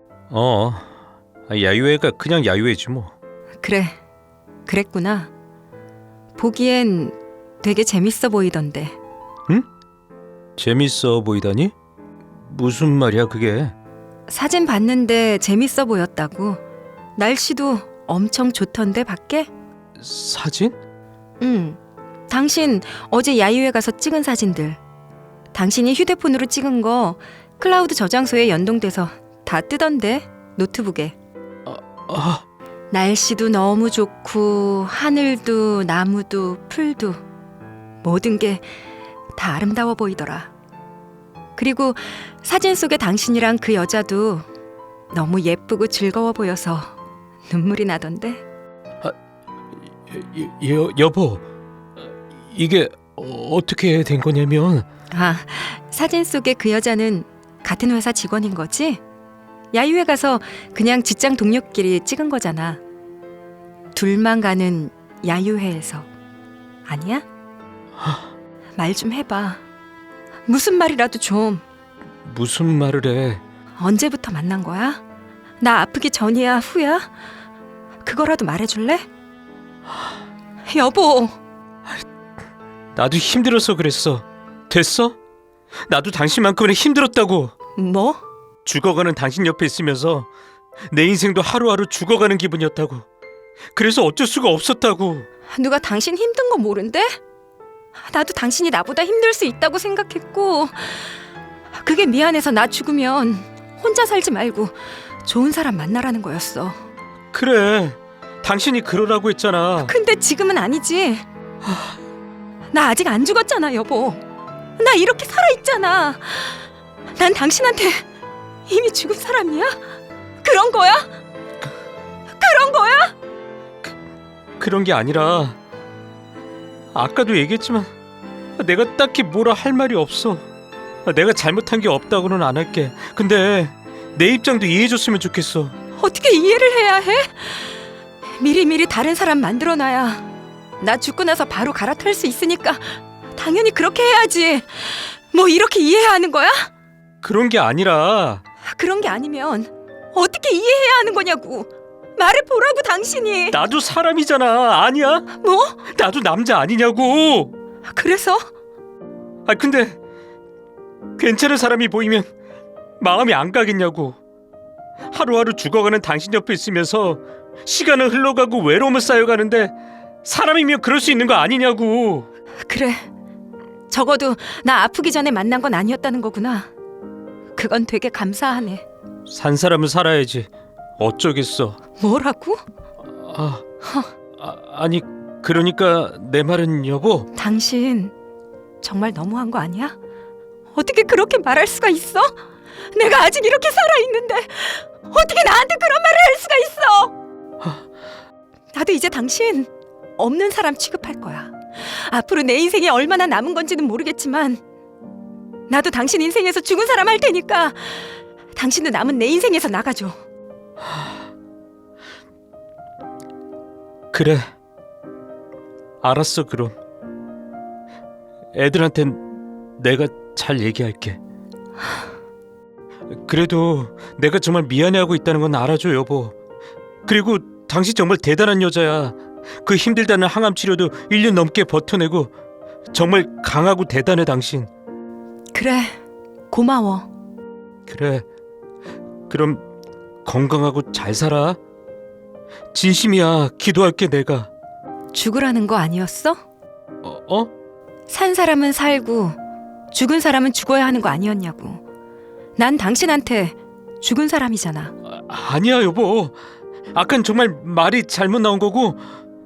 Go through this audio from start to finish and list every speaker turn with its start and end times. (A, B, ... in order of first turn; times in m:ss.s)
0:00.3-0:00.9 A
0:01.5-0:03.1 A
0:03.6-0:04.0 B
0:04.7-0:05.3 B
0:06.4-0:09.0 B
0:10.6-0:11.7 A
0:12.4-0:13.8 A
0:14.3-0:16.6 B
0:17.2-0:19.5 B
0:20.0-0:20.8 A
0:21.4-0:24.8 B
0:25.5-0:31.1 B
0:31.7-0:32.4 A
0:32.9-0:37.2 B
0:38.0-0:38.7 B
0:39.3-0:40.5 B
0:41.6-0:44.5 B
0:45.1-0:47.0 B
0:47.5-0:48.4 B
0:50.1-0:51.4 A
0:52.4-0:54.9 A
0:55.1-0:59.0 B
0:59.7-1:02.8 B
1:03.9-1:06.1 B
1:06.9-1:07.2 B
1:08.0-1:08.3 A
1:08.8-1:09.6 B
1:10.5-1:11.6 B
1:12.2-1:13.4 A
1:13.8-1:15.0 B
1:15.6-1:17.1 B
1:18.0-1:19.1 B
1:20.7-1:21.4 B
1:23.0-1:25.2 A
1:25.9-1:27.5 A
1:27.8-1:28.2 B
1:28.6-1:30.3 A
1:30.9-1:33.1 A
1:33.8-1:35.3 A
1:35.5-1:37.2 B
1:38.0-1:41.2 B
1:41.7-1:46.8 B
1:47.3-1:49.9 A
1:49.8-1:51.3 B
1:52.7-1:54.2 B
1:54.8-1:56.6 B
1:57.2-1:58.1 B
1:58.7-1:59.8 B
2:00.4-2:01.1 B
2:02.3-2:03.1 B
2:04.6-2:05.6 A
2:06.9-2:07.9 A
2:08.6-2:10.5 A
2:11.0-2:15.8 A
2:16.0-2:17.8 B
2:18.4-2:20.3 B
2:20.8-2:26.7 B
2:27.2-2:28.4 A
2:28.6-2:33.6 B
2:33.5-2:35.3 A
2:35.3-2:35.8 B
2:35.9-2:37.5 A
2:37.9-2:38.4 B
2:39.5-2:40.0 A
2:41.2-2:42.3 A
2:43.0-2:44.2 A
2:45.1-2:52.3 A
2:52.7-2:53.0 B
2:53.9-2:56.7 B
2:57.6-2:58.8 B
2:59.3-3:01.8 A
3:02.0-3:02.6 B
3:03.1-3:03.6 A
3:03.8-3:04.1 B
3:04.4-3:07.3 A
3:07.3-3:08.1 B
3:08.8-3:10.0 B
3:10.7-3:17.1 B
3:18.7-3:24.6 B
3:25.7-3:30.2 B
3:34.1-3:34.5 A
3:36.0-3:36.8 A
3:38.5-3:41.2 A
3:43.1-3:46.4 A
3:47.1-3:52.3 A
3:52.9-3:54.7 A
3:55.5-3:56.0 B
3:56.5-3:57.1 B
3:57.9-3:58.2 A
3:59.3-3:59.6 A
4:00.2-4:01.6 A
4:02.7-4:04.5 A
4:05.1-4:06.4 B
4:07.0-4:07.5 A
4:08.1-4:09.4 B
4:09.9-4:11.8 B
4:12.6-4:14.9 B
4:15.1-4:16.4 A
4:16.9-4:19.0 A